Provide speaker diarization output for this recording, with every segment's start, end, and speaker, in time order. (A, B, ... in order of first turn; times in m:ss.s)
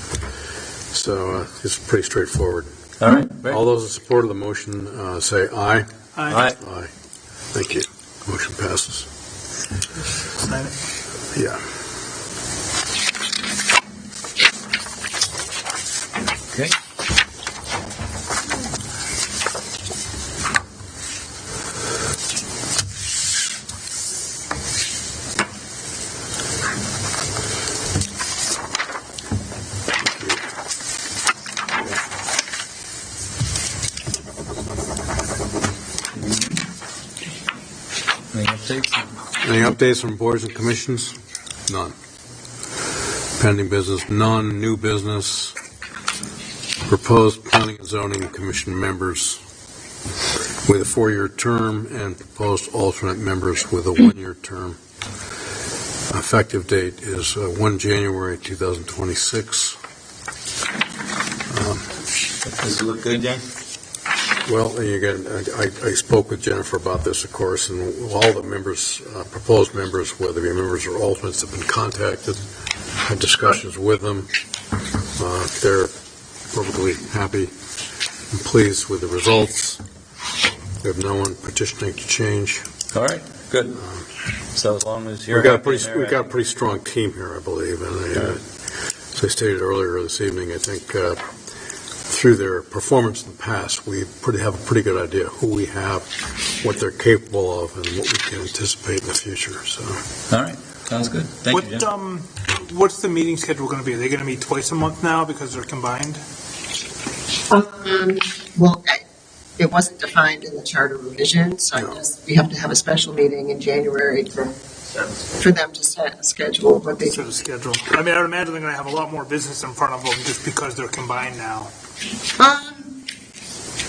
0:00.9-0:02.7 A
0:03.0-0:03.6 B
0:03.5-0:05.9 A
0:06.2-0:06.4 C
0:06.3-0:06.6 B
0:06.6-0:06.9 A
0:07.5-0:09.1 A
0:10.4-0:10.7 C
0:11.3-0:11.6 A
0:30.0-0:30.4 A
0:38.3-0:39.1 B
0:39.4-0:41.2 A
0:41.7-0:41.9 A
0:43.4-0:45.5 A
0:46.8-0:49.4 A
0:50.6-0:54.8 A
0:56.1-0:59.8 A
1:01.5-1:01.9 A
1:02.4-1:03.4 B
1:04.4-1:12.4 A
1:13.0-1:14.3 A
1:15.2-1:15.9 A
1:16.5-1:17.5 A
1:18.3-1:19.8 A
1:20.8-1:22.6 A
1:22.9-1:23.8 B
1:23.8-1:24.0 A
1:24.5-1:26.3 B
1:25.3-1:28.4 A
1:29.1-1:31.2 A
1:32.0-1:40.0 A
1:40.3-1:41.8 B
1:41.5-1:46.2 C
1:47.5-1:49.0 D
1:49.6-1:54.5 D
1:55.4-1:57.2 D
1:57.0-2:01.7 C
2:02.4-2:03.0 D